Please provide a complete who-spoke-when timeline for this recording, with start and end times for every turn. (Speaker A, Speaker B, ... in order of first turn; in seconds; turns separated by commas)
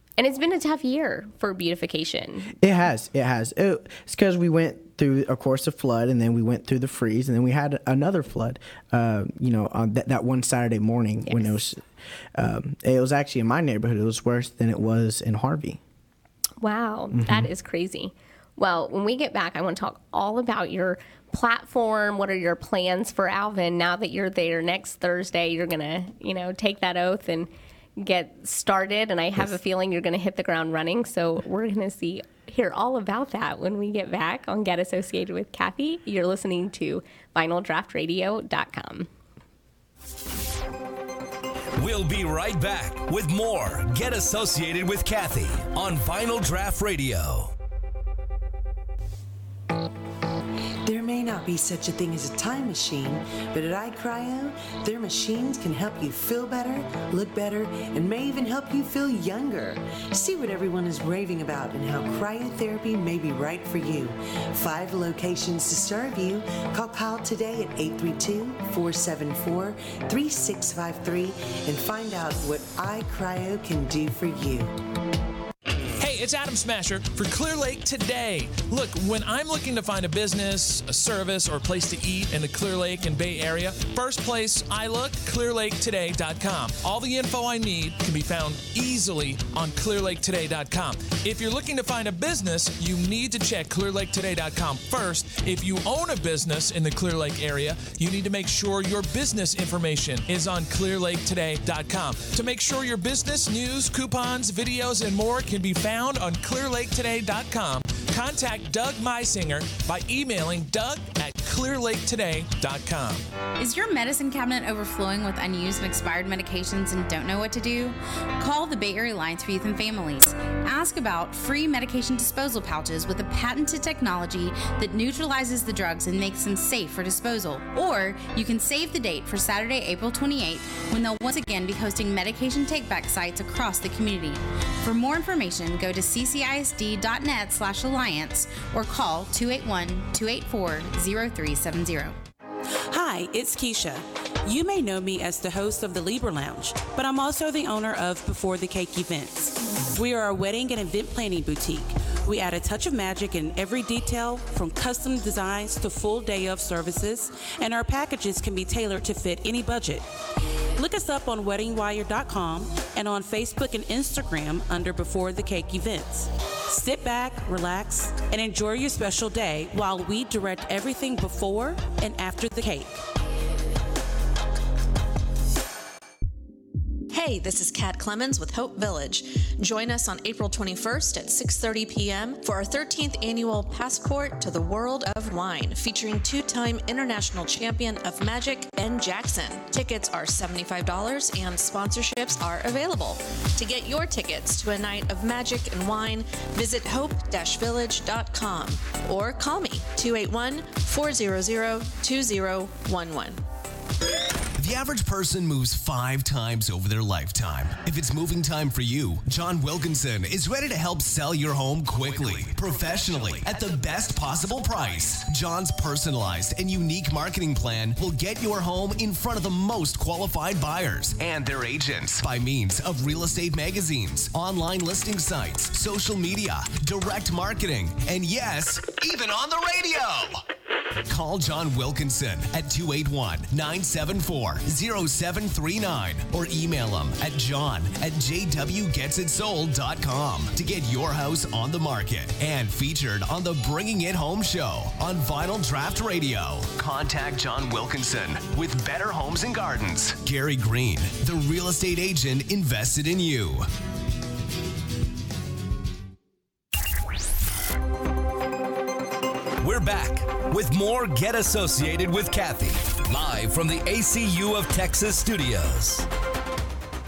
Speaker A: 0.2-2.5, Speaker B: 2.6-11.8, Speaker A: 11.2-11.6, Speaker B: 12.3-15.8, Speaker A: 16.6-39.1, Speaker B: 17.1-17.5, Speaker C: 41.8-47.5, Speaker D: 50.8-74.8, Speaker E: 76.0-113.2, Speaker F: 113.6-142.2, Speaker G: 142.9-160.1, Speaker G: 160.8-172.9, Speaker H: 177.1-203.4, Speaker I: 204.6-230.4, Speaker I: 231.1-253.7, Speaker C: 259.6-266.1